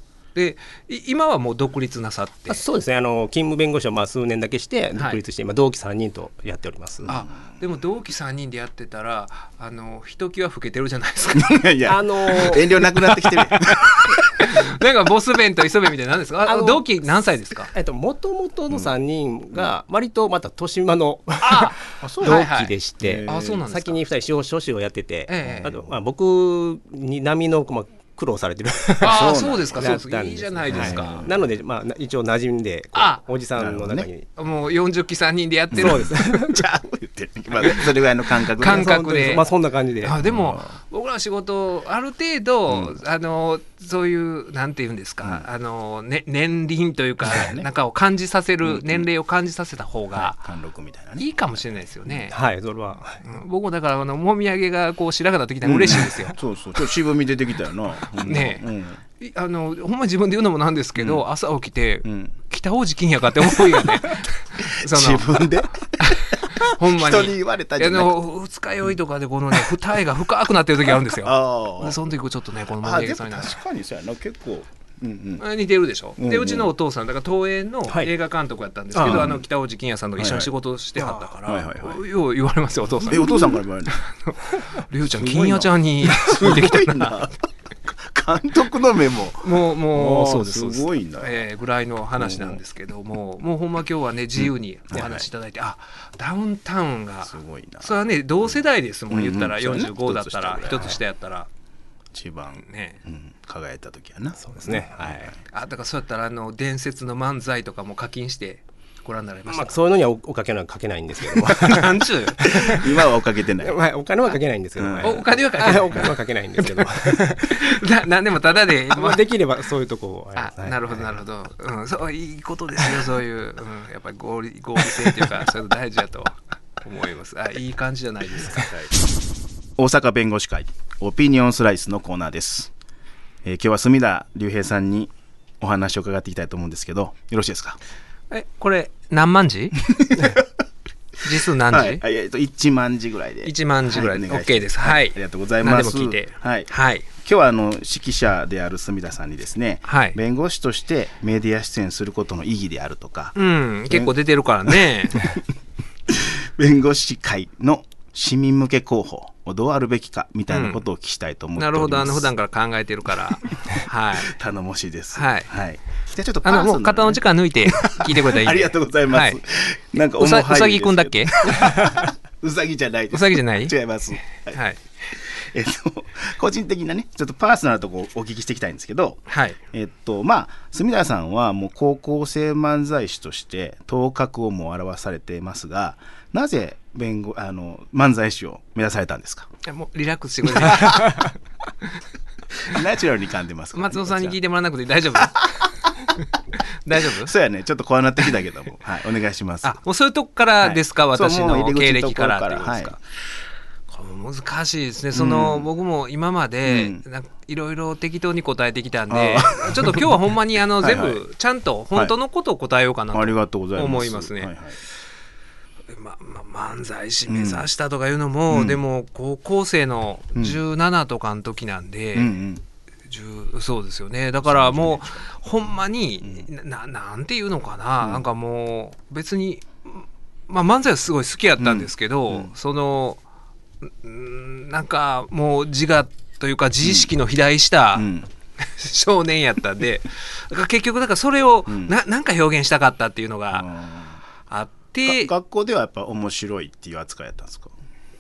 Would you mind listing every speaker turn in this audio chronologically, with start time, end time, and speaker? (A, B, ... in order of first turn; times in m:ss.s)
0:00.4-0:02.6 A
0:02.5-0:07.1 B
0:07.0-0:07.3 C
0:07.1-0:11.7 A
0:11.4-0:14.4 C
0:11.9-0:12.9 B
0:12.3-0:17.7 A
0:16.5-0:17.0 B
0:17.7-0:34.3 B
0:21.4-0:24.0 A
0:22.0-0:22.5 C
0:23.0-0:23.6 C
0:25.3-0:25.8 A
0:25.4-0:25.9 C
0:29.0-0:30.0 C
0:29.0-0:31.3 A
0:30.7-0:31.4 C
0:33.0-0:33.2 A
0:33.6-0:34.1 C
0:34.4-0:36.4 A
0:35.7-0:39.4 C
0:35.8-0:36.6 B
0:38.6-0:39.4 A
0:38.6-0:40.2 B
0:40.0-0:50.4 A
0:40.2-0:40.8 C
0:42.7-0:43.0 C
0:47.2-0:47.7 C
0:48.6-0:49.1 C
0:50.1-0:52.3 C
0:51.2-0:52.4 A
0:52.3-0:53.2 B
0:53.2-0:56.4 A
0:55.6-0:59.0 C
0:58.2-0:58.6 A
0:59.2-1:05.4 A
1:01.0-1:01.2 C
1:02.0-1:02.3 C
1:03.6-1:08.2 C
1:06.0-1:13.6 A
1:10.9-1:12.0 C
1:12.8-1:15.4 C
1:15.4-1:27.3 A
1:16.2-1:16.7 C
1:18.9-1:19.3 B
1:19.0-1:19.4 C
1:20.2-1:20.5 C
1:21.4-1:22.0 C
1:23.0-1:24.0 C
1:25.1-1:31.4 C
1:29.4-1:41.5 A
1:32.2-1:32.6 C
1:34.4-1:35.3 C
1:37.3-1:41.0 C
1:42.1-1:45.4 C
1:42.6-1:43.0 A
1:44.4-1:45.3 B
1:45.5-1:49.8 A
1:49.5-1:57.8 B
1:51.4-1:52.8 A
1:52.5-1:53.8 C
1:54.8-1:55.2 C
1:55.0-1:59.2 A
1:58.9-2:01.2 B
2:00.4-2:08.7 A
2:05.0-2:05.3 B
2:09.8-2:12.7 C
2:13.4-2:17.8 C
2:18.3-2:19.8 A
2:19.9-2:20.5 C
2:21.2-2:22.0 A
2:21.4-2:33.4 C
2:23.4-2:27.1 A
2:29.9-2:30.2 A
2:33.4-2:35.3 A
2:34.7-2:35.4 C
2:36.1-2:42.3 C
2:40.5-2:40.8 A
2:41.6-2:44.3 A
2:44.2-3:09.5 C
2:45.1-2:45.5 A
2:46.4-2:49.4 A
2:50.1-2:51.7 A
2:53.1-2:53.7 A
2:54.4-2:54.8 A
2:59.3-2:59.6 A
3:09.6-3:11.3 A
3:10.6-3:10.9 C
3:12.6-3:14.4 C
3:13.7-3:15.7 A
3:16.8-3:17.3 A
3:17.1-3:19.8 C
3:19.6-3:23.0 A
3:20.6-3:23.0 C
3:23.9-3:34.5 A
3:25.1-3:25.7 C
3:26.6-3:27.0 C
3:29.1-3:30.1 C
3:30.8-3:31.2 C
3:33.1-3:34.8 C
3:35.9-3:42.3 A
3:37.3-3:37.7 C
3:38.5-3:38.8 C
3:42.1-3:42.6 C
3:43.1-3:53.2 A
3:44.5-3:45.3 C
3:51.6-3:52.5 C
3:53.8-3:58.1 A
3:56.8-3:57.1 C
3:58.0-3:58.3 C
3:58.6-4:03.7 A
4:01.7-4:01.9 C
4:03.5-4:04.2 C
4:04.5-4:05.3 A
4:05.1-4:07.7 C